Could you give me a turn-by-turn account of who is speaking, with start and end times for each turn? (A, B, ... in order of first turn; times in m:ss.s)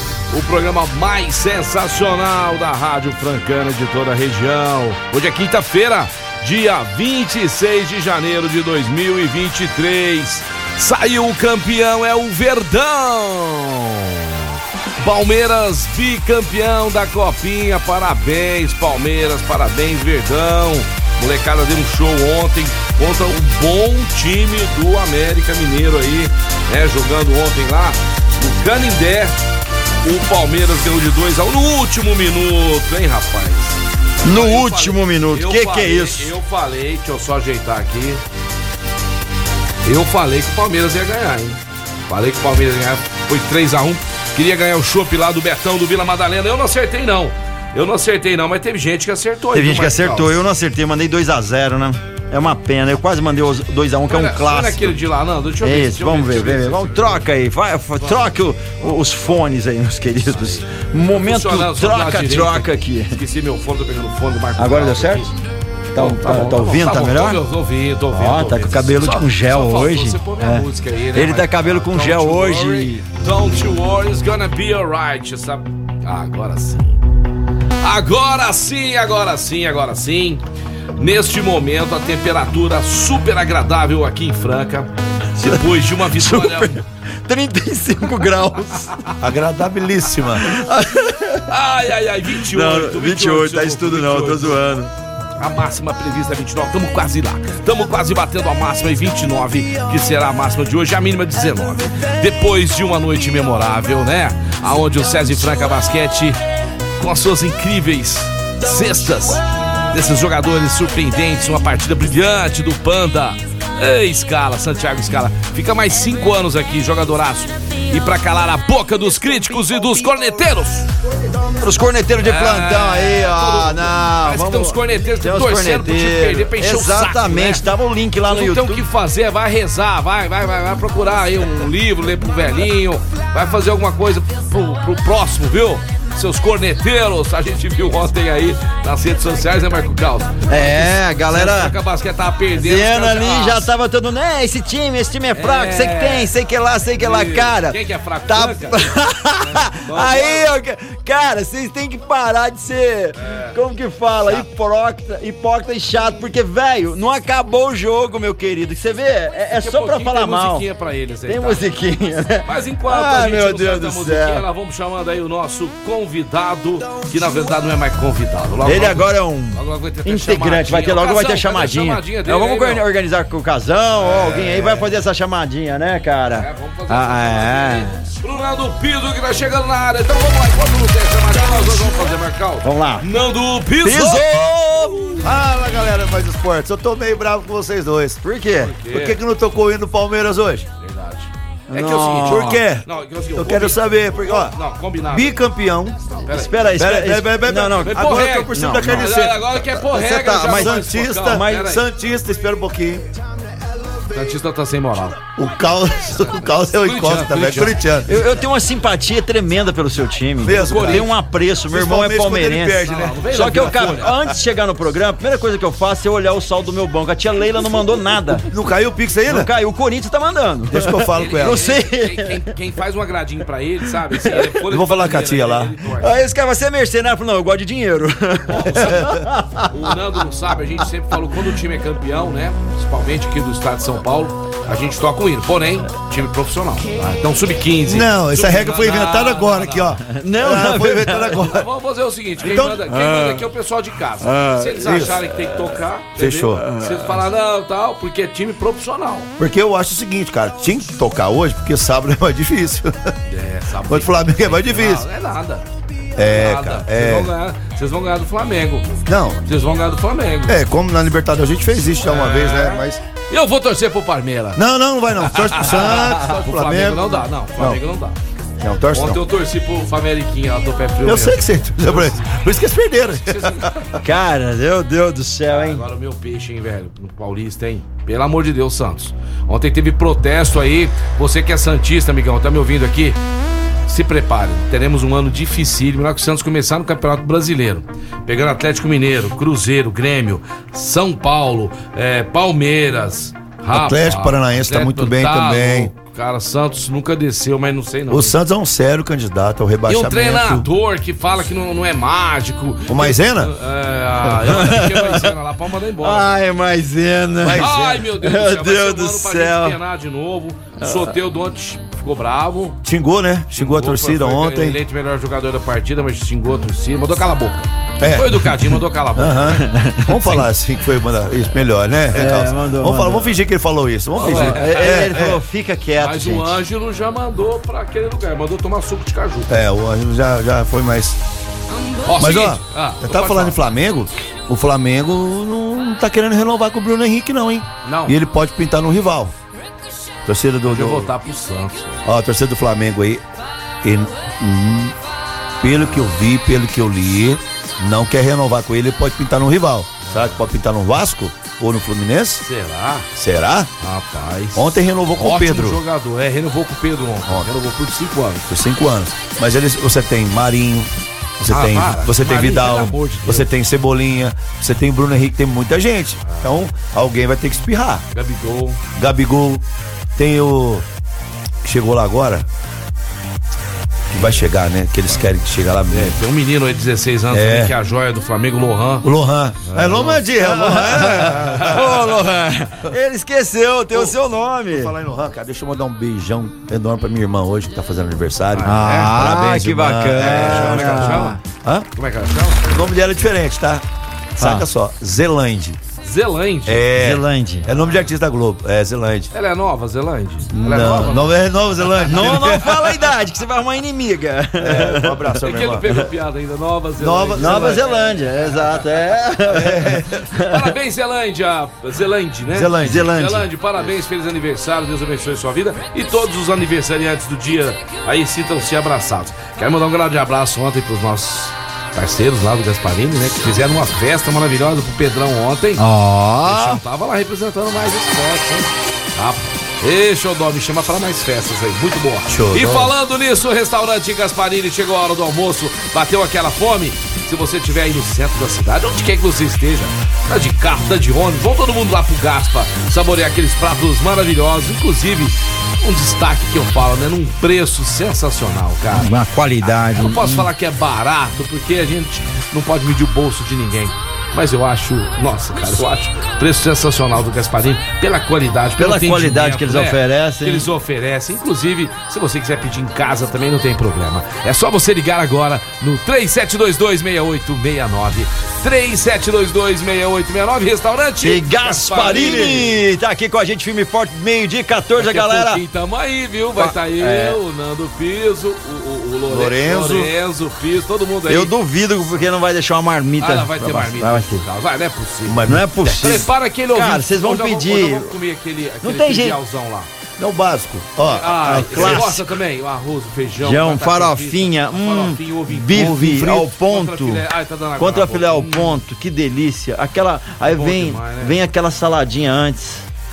0:00.3-0:14.5 A
0:15.0-0:29.4 A
0:30.0-0:38.2 A
0:34.2-0:36.3 B
0:39.8-0:50.3 A
0:49.5-0:54.9 B
0:54.1-0:57.2 A
0:55.6-1:03.2 B
0:58.0-0:58.3 A
1:00.3-1:05.3 A
1:04.6-1:05.2 B
1:05.9-1:07.4 B
1:05.9-1:17.0 A
1:08.1-1:13.0 B
1:17.8-1:20.4 A
1:21.0-1:26.8 A
1:25.4-1:29.0 B
1:29.2-1:30.5 C
1:30.4-1:31.4 B
1:31.5-1:34.6 A
1:32.4-1:34.9 B
1:35.4-1:46.4 A
1:47.0-2:00.9 A
2:01.6-2:08.8 B
2:02.2-2:07.6 A
2:08.3-2:23.6 A
2:20.5-2:21.8 B
2:22.5-2:40.6 B
2:25.3-2:26.3 A
2:27.0-2:30.5 A
2:33.2-2:33.6 A
2:39.6-2:41.6 A
2:41.3-2:44.4 B
2:42.4-2:52.8 A
2:48.6-2:58.0 B
2:54.0-2:54.9 A
2:56.4-3:04.3 A
3:02.6-3:03.1 B
3:03.8-3:05.2 B
3:05.2-3:08.2 C
3:08.2-3:08.7 B
3:08.6-3:09.2 A
3:08.9-3:10.7 C
3:10.8-3:15.4 A
3:11.7-3:12.6 B
3:12.2-3:14.5 C
3:15.1-3:16.0 C
3:16.1-3:16.6 A
3:16.3-3:19.2 B
3:16.8-3:23.2 C
3:17.8-3:21.8 A
3:19.8-3:21.7 B
3:24.1-3:25.2 A
3:25.4-3:28.2 C
3:26.7-3:27.8 A
3:28.1-3:38.4 B
3:30.4-3:31.1 C
3:30.4-3:31.1 A
3:31.7-3:34.2 C
3:32.8-3:34.1 A
3:38.5-3:39.5 C
3:39.3-3:42.5 B
3:40.7-3:41.6 C
3:41.2-3:46.1 A
3:44.2-3:44.5 B
3:44.6-3:45.7 C
3:46.0-3:49.9 B
3:48.5-3:49.1 A
3:48.8-3:49.2 C
3:49.7-4:00.0 A
3:57.8-4:01.6 C
4:00.1-4:01.6 B
4:01.4-4:09.3 A
4:02.4-4:02.9 C
4:02.9-4:03.4 B
4:04.2-4:05.3 B
4:04.8-4:05.1 C
4:06.2-4:06.6 C
4:06.6-4:07.2 B
4:09.4-4:13.1 C
4:13.3-4:15.6 A
4:13.8-4:15.0 C
4:16.2-4:17.3 C
4:16.2-4:18.9 A
4:19.1-4:19.4 C
4:19.4-4:20.6 A
4:20.4-4:23.0 C
4:22.0-4:24.6 A
4:24.5-4:27.8 C
4:25.2-4:28.2 A
4:28.6-4:29.2 C
4:28.9-4:32.2 A
4:31.0-4:33.8 C
4:33.2-4:33.7 A
4:34.0-4:35.8 B
4:35.5-4:43.2 A
4:43.9-4:58.3 A
4:53.7-4:55.9 C
4:58.1-5:00.7 C
4:59.9-5:06.3 A
5:02.9-5:03.5 C
5:04.3-5:05.3 B
5:06.0-5:09.8 B
5:07.4-5:08.0 C
5:07.6-5:12.8 A
5:10.8-5:11.1 B
5:12.8-5:14.8 C
5:13.5-5:19.6 A
5:18.0-5:25.4 C
5:19.4-5:20.4 B
5:22.1-5:23.4 B
5:24.2-5:25.0 A
5:24.2-5:26.5 B
5:26.0-5:29.5 A
5:29.5-5:31.2 C
5:32.0-5:33.6 A
5:32.2-5:39.3 C
5:37.8-5:38.2 A
5:40.2-5:41.1 C
5:40.6-5:42.0 A
5:42.0-5:43.2 C
5:43.8-5:44.9 C
5:45.6-5:52.4 C
5:50.0-5:50.4 A
5:52.4-5:53.1 A
5:53.1-5:53.7 C
5:53.8-5:58.5 A
5:54.5-5:55.8 C
5:58.5-6:08.0 C
6:01.5-6:03.5 A
6:06.2-6:06.5 A
6:08.1-6:08.8 A
6:09.0-6:09.6 C
6:10.2-6:10.8 C
6:11.6-6:12.5 C
6:14.1-6:16.2 C
6:15.9-6:19.1 A
6:17.3-6:17.7 C
6:19.0-6:22.0 C
6:19.6-6:20.2 A
6:20.3-6:24.9 B
6:21.5-6:21.8 A
6:24.7-6:31.8 C
6:28.5-6:29.2 A
6:28.6-6:31.4 B
6:30.2-6:31.4 A
6:32.0-6:32.6 A
6:32.7-6:33.8 C
6:34.3-6:35.8 C
6:34.4-6:34.6 B
6:36.0-6:36.8 A
6:36.7-6:39.3 C
6:36.9-6:37.6 B
6:37.7-6:38.0 A
6:39.3-6:41.3 A
6:40.5-6:43.0 C
6:42.0-6:45.9 B
6:44.6-6:45.8 C
6:45.4-6:48.3 A
6:47.0-6:47.8 C
6:47.4-6:50.7 B
6:49.5-6:50.2 C
6:50.4-7:05.8 A
6:52.5-6:53.3 C
6:52.8-6:53.4 B
7:05.8-7:06.8 B
7:06.4-7:29.1 A
7:12.3-7:12.9 C
7:28.9-7:30.5 B
7:30.0-7:52.7 A
7:38.8-7:40.7 B
7:51.2-7:55.6 B
7:52.0-7:52.6 C
7:55.0-8:01.5 A
7:56.6-7:57.4 B
7:59.3-8:00.1 C
8:01.3-8:04.4 B
8:03.2-8:09.9 A
8:05.2-8:05.7 C
8:05.4-8:08.1 B
8:08.8-8:09.4 B
8:10.2-8:12.1 C
8:11.1-8:16.0 A
8:11.4-8:12.2 B
8:13.4-8:17.2 B
8:15.7-8:16.5 C
8:16.6-8:18.8 A
8:17.8-8:22.8 B
8:20.5-8:21.3 A